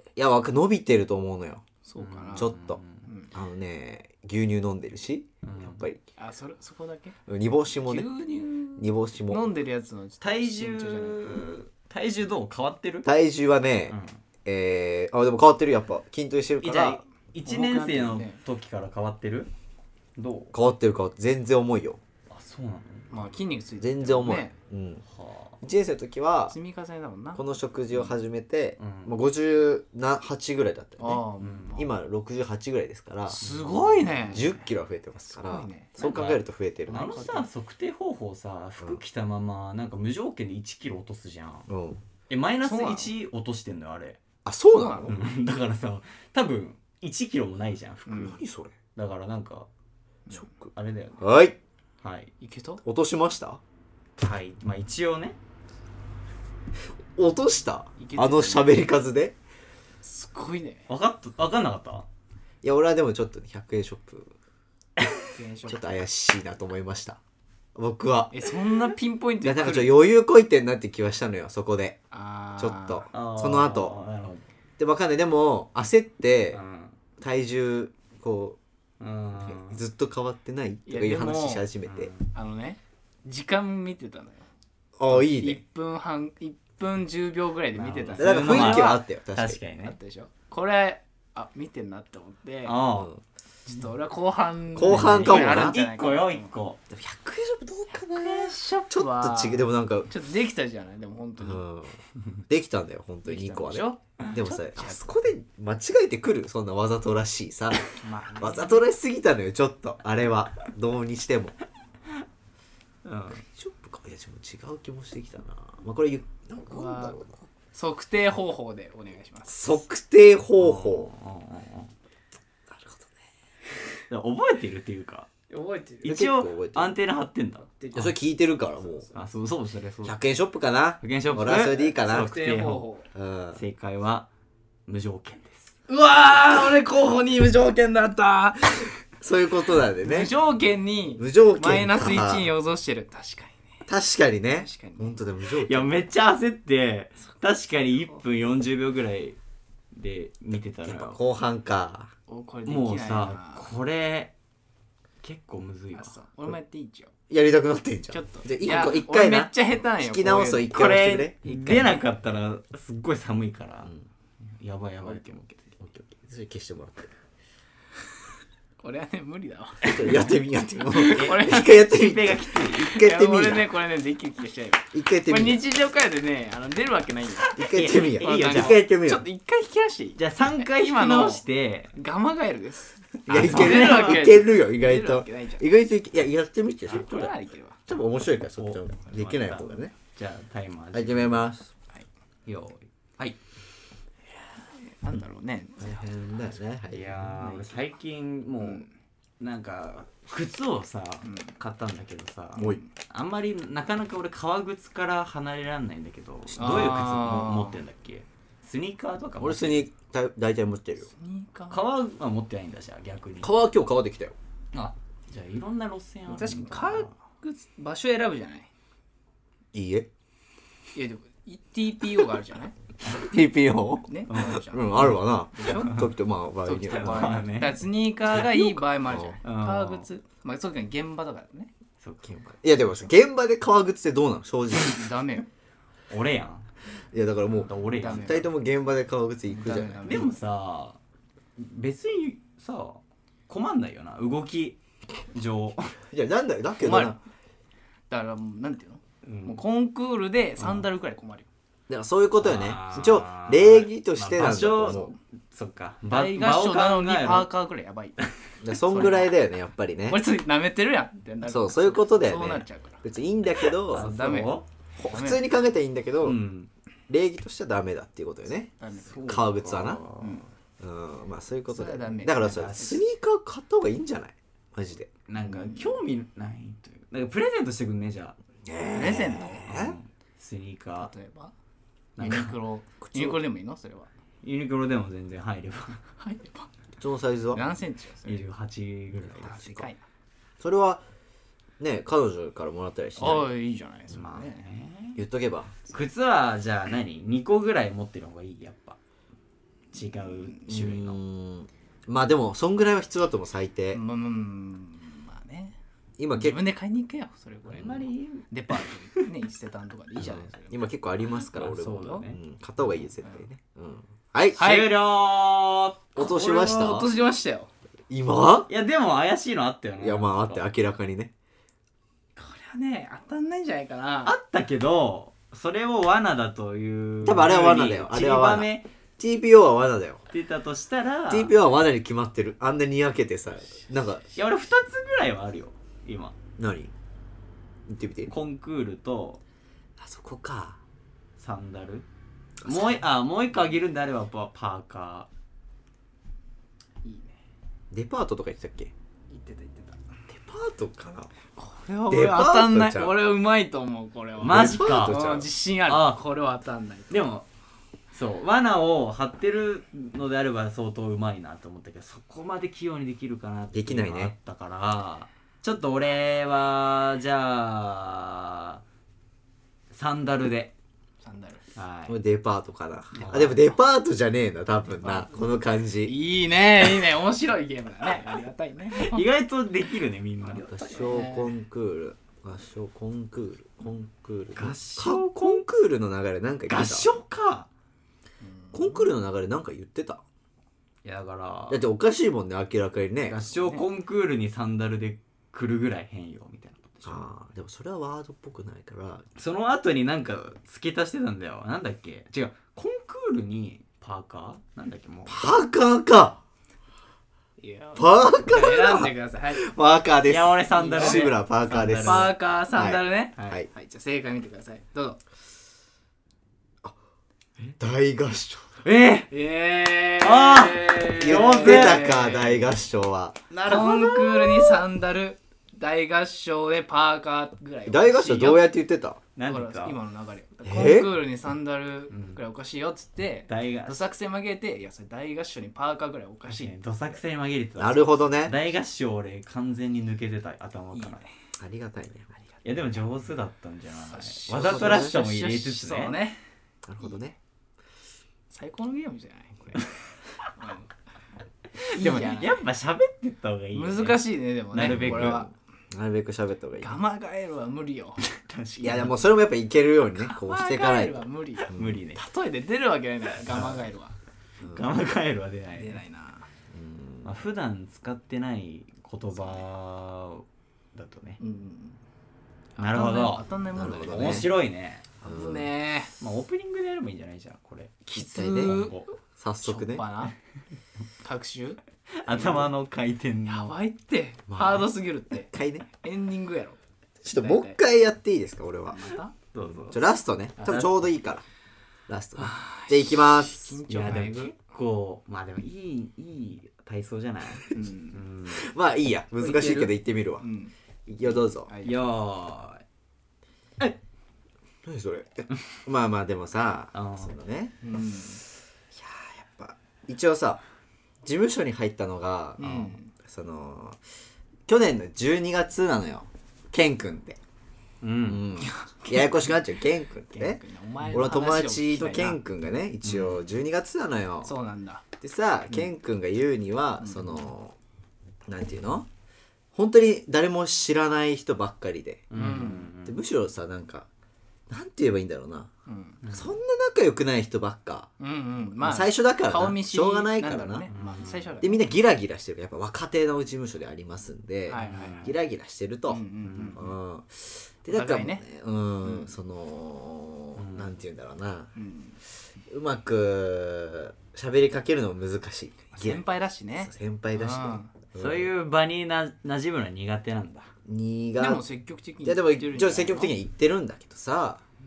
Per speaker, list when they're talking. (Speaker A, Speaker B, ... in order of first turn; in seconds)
Speaker A: 0.2-1.6, 2.4-2.8, 3.3-6.0, 7.3-8.1, 8.8-9.5, 13.1-17.0, 20.5-22.0, 23.8-25.0, 25.6-26.6, 27.4-31.2, 31.8-33.4, 34.3-37.2, 41.7-42.0, 44.5-45.2, 48.2-48.8, 50.4-51.6, 52.8-53.6, 57.1-59.4, 62.6-64.3, 65.7-67.2, 67.8-68.5, 69.4-72.0, 72.6-74.0, 74.8-76.6, 77.2-78.6, 79.4-82.1, 85.0-85.6, 88.2-89.6, 92.9-93.2, 94.8-95.8, 96.9-100.1, 101.4-107.8, 108.4-111.6, 113.3-117.3, 119.5-121.1, 122.7-123.1, 126.0-127.0, 127.9-129.1, 130.0-132.3, 133.2-133.6, 139.2-140.3, 141.2-142.5, 143.9-146.0, 150.8-152.1, 157.3-161.9, 165.8-167.2, 169.8-173.7, 174.9-175.6, 177.6-179.2, 183.3-187.3, 187.9-189.9, 190.9-191.7, 195.8-197.7, 206.6-207.0, 209.4-211.1, 213.4-214.4, 219.7-220.1, 223.1-227.4, 229.0-229.4, 232.2-235.0, 237.1-240.3, 246.1-247.2, 251.9-255.2, 258.6-260.2, 261.4-264.1, 265.0-266.4, 267.1-268.7, 269.2-270.0, 270.8-275.1, 278.6-280.0, 283.0-283.4, 287.0-287.6, 289.2-289.9, 290.6-291.0, 291.8-293.5, 295.2-295.8, 300.7-304.0, 306.2-306.6, 310.2-314.7, 316.2-317.1, 318.1-318.7, 320.0-321.3, 327.2-330.2, 331.3-334.3, 336.6-336.9, 337.9-338.3, 340.0-340.8, 342.6-343.0, 347.9-348.9, 350.3-351.3, 352.1-353.2, 354.4-355.5, 363.7-364.3, 372.1-376.1, 380.5-387.1, 388.7-390.2, 391.7-393.4, 397.0-399.3, 405.3-406.4, 408.0-413.7, 417.8-418.8, 421.2-423.9, 427.9-429.2, 430.7-431.2, 437.8-438.6, 441.6-442.4, 444.5-445.2, 446.9-447.4, 454.8-457.0, 458.8-462.0, 466.7-467.3, 473.7-474.5, 475.2-475.7, 478.1-478.8, 479.4-480.1, 484.5-485.9, 487.2-489.1, 489.9-491.4, 492.1-493.8, 498.5-500.4, 501.1-501.7, 504.8-507.8, 508.9-510.6, 511.2-514.0, 514.7-517.4, 518.3-524.5, 525.2-527.8, 528.5-529.1, 529.7-534.1, 534.7-535.7, 536.3-538.1, 538.8-540.9, 541.6-551.7, 552.6-556.2, 556.8-558.5, 560.9-561.7, 562.2-564.6
Speaker B: 1.9-3.3, 6.2-7.2, 7.8-11.5, 17.4-18.4, 23.1-24.6, 26.5-27.4, 31.0-31.9, 33.3-34.6, 35.2-36.3, 36.9-37.5, 42.6-43.1, 44.7-45.1, 48.1-48.4, 52.4-52.8, 58.0-58.8, 60.0-60.9, 65.3-66.0, 68.3-70.0, 72.1-73.1, 80.9-81.7, 82.3-84.5, 85.1-89.0, 89.8-92.8, 93.7-96.5, 98.2-101.6, 103.2-104.1, 104.8-105.1, 108.0-108.8, 116.7-119.8, 125.5-126.2, 127.7-128.2, 132.0-133.1, 135.9-139.0, 140.0-143.8, 144.6-145.2, 152.3-153.7, 155.9-157.1, 158.1-160.8, 161.4-162.0, 165.0-165.3, 168.8-170.2, 170.9-171.9, 172.8-185.7, 186.9-187.8, 194.6-196.1, 198.6-198.9, 201.2-201.5, 202.6-202.9, 206.6-207.8, 211.0-211.8, 216.3-218.7, 220.9-222.7, 224.1-226.1, 226.6-231.7, 234.8-235.5, 238.0-238.5, 239.5-240.3, 246.8-247.2, 248.1-251.5, 256.1-258.2, 258.7-259.3, 260.1-263.0, 263.9-265.5, 268.7-269.4, 270.2-270.5, 271.7-273.0, 275.4-276.0, 278.9-279.7, 281.0-281.5, 282.2-284.1, 286.1-286.7, 287.5-288.5, 289.3-290.0, 293.2-294.6, 303.9-305.8, 306.3-310.9, 311.8-312.3, 314.6-314.9, 316.2-317.7, 322.4-324.4, 347.0-347.4, 349.3-350.0, 351.6-357.3, 371.2-371.6, 375.0-375.3, 376.0-379.3, 380.5-381.5, 388.4-389.1, 393.5-393.9, 407.6-409.7, 410.7-411.4, 412.0-415.2, 419.3-422.6, 423.6-428.7, 429.5-436.8, 440.9-441.3, 444.1-446.4, 448.5-449.9, 450.6-450.9, 451.9-452.6, 453.7-455.5, 456.8-458.2, 460.1-464.2, 465.8-466.5, 469.4-469.6, 471.4-472.0, 472.8-474.5, 475.3-476.1, 478.1-479.0, 479.6-480.4, 481.2-481.8, 482.4-482.6, 483.5-487.8, 488.9-489.4, 490.6-490.9, 492.4-494.6, 497.7-498.2, 499.4-500.7, 501.7-502.0, 507.8-508.4, 512.6-513.1, 518.6-519.5, 520.3-522.4, 524.4-525.0, 527.0-527.5, 532.3-532.9, 535.9-536.2, 538.2-541.8, 544.7-545.3, 546.1-546.9, 547.9-548.5, 549.0-549.3, 551.8-552.2, 555.9-557.9, 561.4-563.4
Speaker C: 2.0-3.1, 5.4-5.9, 10.2-13.1, 13.9-14.2, 16.6-19.5, 20.2-20.5, 22.3-23.2, 25.1-25.6, 28.8-29.1, 31.4-31.8, 33.3-34.5, 36.0-41.7, 42.3-44.2, 45.0-48.4, 49.0-49.7, 50.8-51.3, 52.0-52.3, 54.2-55.4, 60.9-62.1, 73.1-74.4, 76.5-77.0, 79.0-79.8, 81.8-82.3, 87.8-90.0, 92.7-93.1, 94.8-96.8, 113.0-113.4, 120.6-121.9, 124.1-125.3, 126.0-127.7, 129.1-130.2, 131.0-132.9, 133.6-134.3, 134.9-135.7, 145.6-149.4, 149.9-151.2, 152.7-154.3, 155.2-156.2, 160.7-163.9, 164.5-165.8, 169.8-170.3, 171.1-172.8, 177.4-178.8, 180.2-181.9, 183.3-184.3, 188.6-191.5, 192.5-193.4, 196.9-198.9, 199.4-209.9, 211.7-213.5, 214.7-217.1, 225.7-226.1, 226.9-227.8, 229.4-230.1, 232.0-232.4, 236.1-236.7, 237.7-238.5, 240.1-241.0, 241.6-244.8, 245.3-245.9, 249.2-249.7, 252.4-257.5, 263.9-264.7, 266.2-266.7, 269.0-270.4, 275.3-278.4, 279.2-281.1, 282.2-282.6, 284.4-286.0, 288.3-289.6, 294.1-295.2, 295.9-299.0, 299.9-301.2, 307.7-309.3, 311.5-312.4, 314.5-316.7, 318.7-320.6, 324.2-328.9, 330.3-331.5, 334.3-336.4, 338.3-339.4, 341.4-342.1, 342.6-345.3, 354.4-355.2, 355.9-356.2, 357.1-357.5, 358.1-368.8, 369.9-370.7, 371.8-372.2, 373.1-373.6, 378.9-381.2, 384.6-385.6, 386.7-387.7, 391.0-391.8, 393.2-397.3, 399.4-405.5, 410.3-412.3, 418.8-419.3, 420.2-422.7, 423.5-424.8, 429.4-430.0, 432.1-432.4, 433.5-434.1, 436.5-441.3, 442.6-446.3, 451.8-455.4, 458.2-459.2, 461.7-462.2, 464.7-466.0, 467.2-471.4, 472.8-475.1, 476.2-479.1, 482.2-483.7, 489.5-490.0, 490.7-490.9, 493.9-498.6, 501.8-502.8, 506.9-507.3, 518.0-518.6, 523.1-523.4, 532.3-533.2, 536.2-536.5, 540.9-541.6, 544.8-545.3, 546.4-546.9, 550.6-551.0, 558.2-560.7